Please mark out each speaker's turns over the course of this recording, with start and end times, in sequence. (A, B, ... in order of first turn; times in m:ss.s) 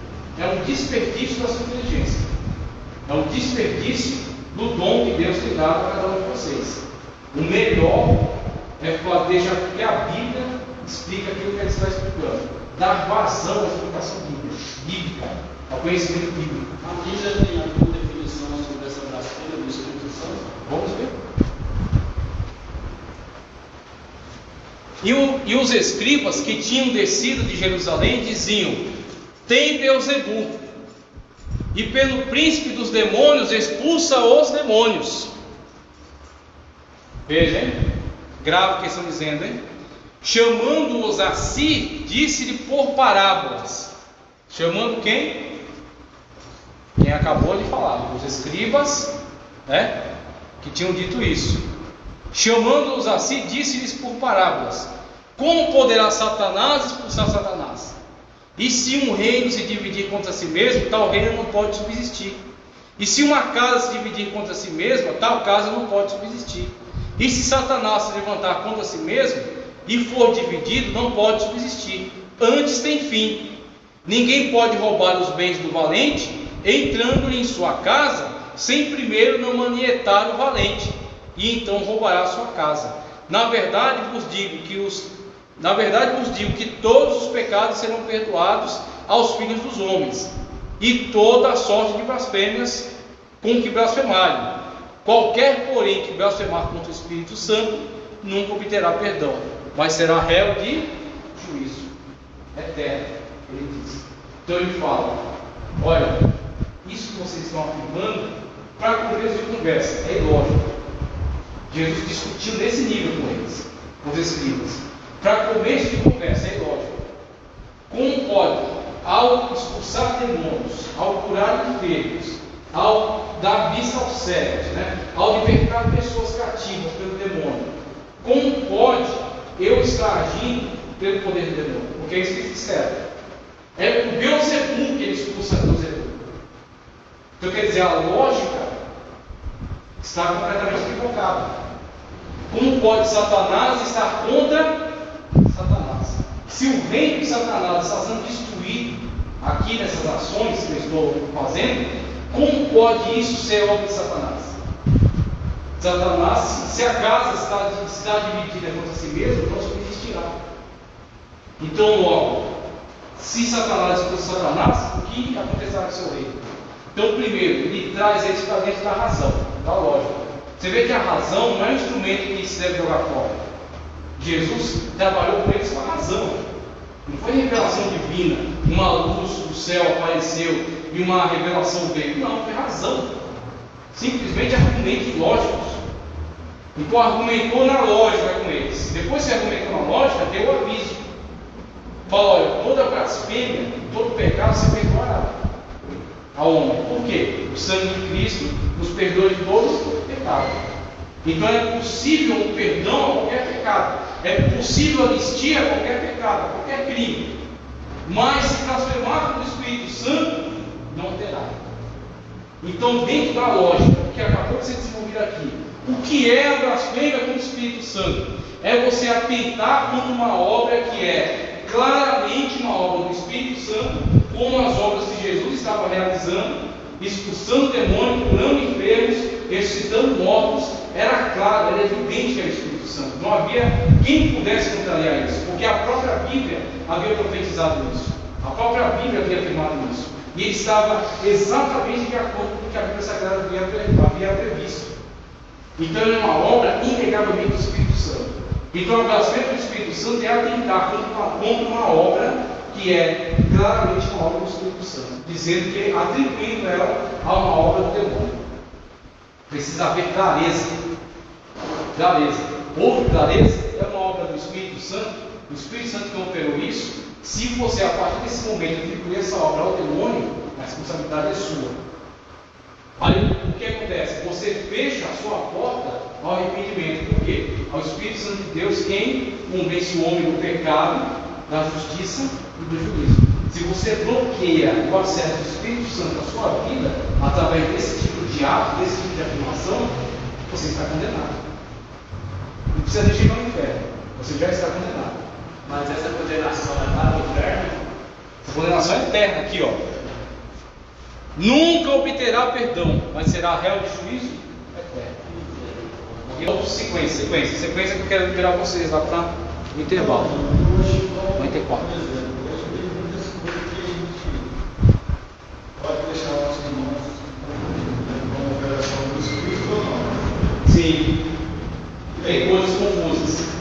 0:00.4-0:02.3 A
0:03.1-0:06.8 A
0:07.3-0:08.2 A
0:08.8-0:16.8 A
0:16.8-0:20.5 B
0:20.7-0:21.2 A
0:25.0-0:28.9 A
0:29.5-0:30.6 A
0:31.7-0:35.3 A
0:37.3-0:37.8 A
0:38.4-0:39.6 A
0:40.2-0:43.9 A
0:44.5-0:45.6 A
0:47.0-0:49.1 A
0:49.7-0:50.0 A
0:50.6-0:51.6 A
0:52.3-0:58.0 A
0:58.6-1:02.4 A
1:03.0-1:32.9 A
1:33.4-1:41.9 A
1:42.6-1:45.2 A
1:45.8-1:46.3 A
1:46.8-1:50.6 A
1:51.7-1:57.0 A
1:57.9-2:07.7 A
2:08.2-2:13.0 A
2:13.8-2:16.3 A
2:17.4-2:18.7 A
2:20.0-2:21.5 A
2:22.5-2:24.9 A
2:25.4-2:34.6 A
2:35.8-2:40.4 A
2:41.6-2:42.5 A
2:43.2-2:53.4 A
2:54.2-2:56.4 A
2:57.0-3:03.1 A
3:03.9-3:05.8 A
3:06.8-3:11.0 A
3:12.1-3:15.4 A
3:16.4-3:20.6 A
3:21.2-3:27.3 A
3:28.0-3:31.7 A
3:32.6-4:05.0 A
4:05.8-4:18.4 A
4:19.5-4:20.7 A
4:21.9-4:31.8 A
4:33.0-4:49.9 A
4:50.5-4:51.4 A
4:52.7-4:55.2 A
4:55.6-4:57.8 B
4:58.4-4:59.8 A
4:59.8-5:00.1 C
5:01.4-5:05.2 A
5:05.2-5:06.5 B
5:06.3-5:10.3 A
5:09.9-5:14.5 C
5:11.4-5:11.9 A
5:15.8-5:20.6 C
5:20.6-5:21.2 A
5:22.1-5:22.7 C
5:22.2-5:23.5 A